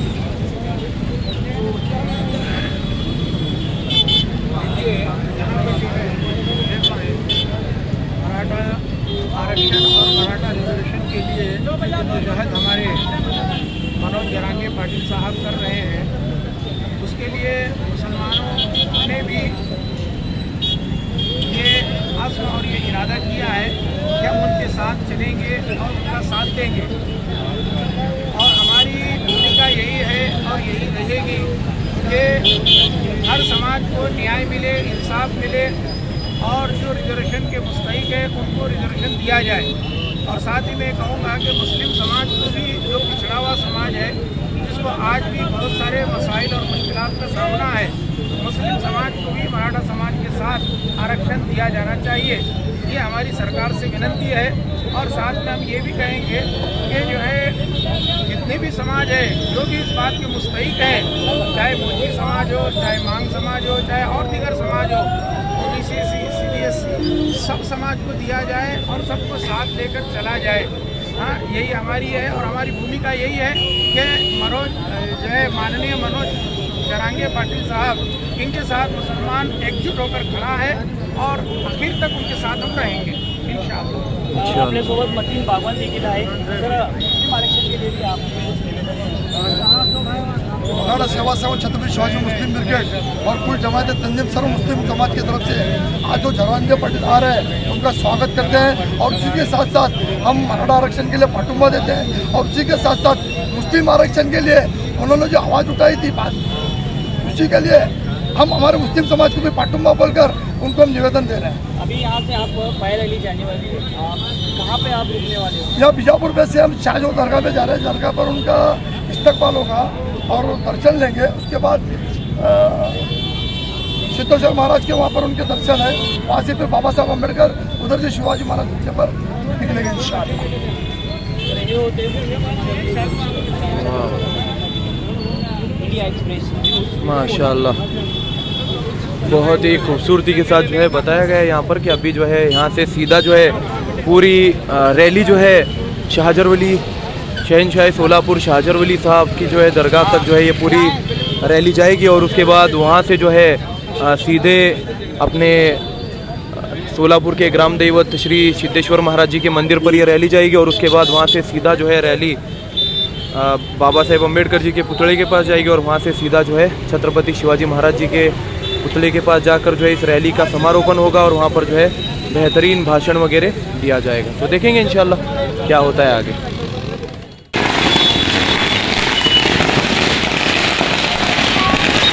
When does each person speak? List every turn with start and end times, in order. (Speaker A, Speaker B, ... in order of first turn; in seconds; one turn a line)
Speaker A: 5.0-6.0
Speaker A: 6.7-7.1
Speaker A: 8.2-13.1
Speaker A: 13.9-16.1
Speaker A: 17.0-19.6
Speaker A: 21.4-26.9
Speaker A: 28.3-32.5
Speaker A: 33.2-35.8
Speaker A: 36.4-39.7
Speaker A: 40.2-57.6
Speaker A: 58.2-84.2
Speaker B: 84.3-85.0
Speaker C: 84.9-88.4
Speaker D: 90.7-106.4
Speaker D: 107.2-111.6
Speaker C: 111.8-115.7
Speaker D: 115.8-123.0
Speaker D: 124.1-130.4
Speaker C: 131.6-132.2
Speaker C: 132.9-133.4
Speaker B: 133.5-134.3
Speaker C: 135.8-136.7
Speaker B: 137.0-137.8
Speaker B: 139.2-146.8
Speaker B: 147.4-155.8
Speaker B: 156.5-162.4
Speaker B: 163.3-176.4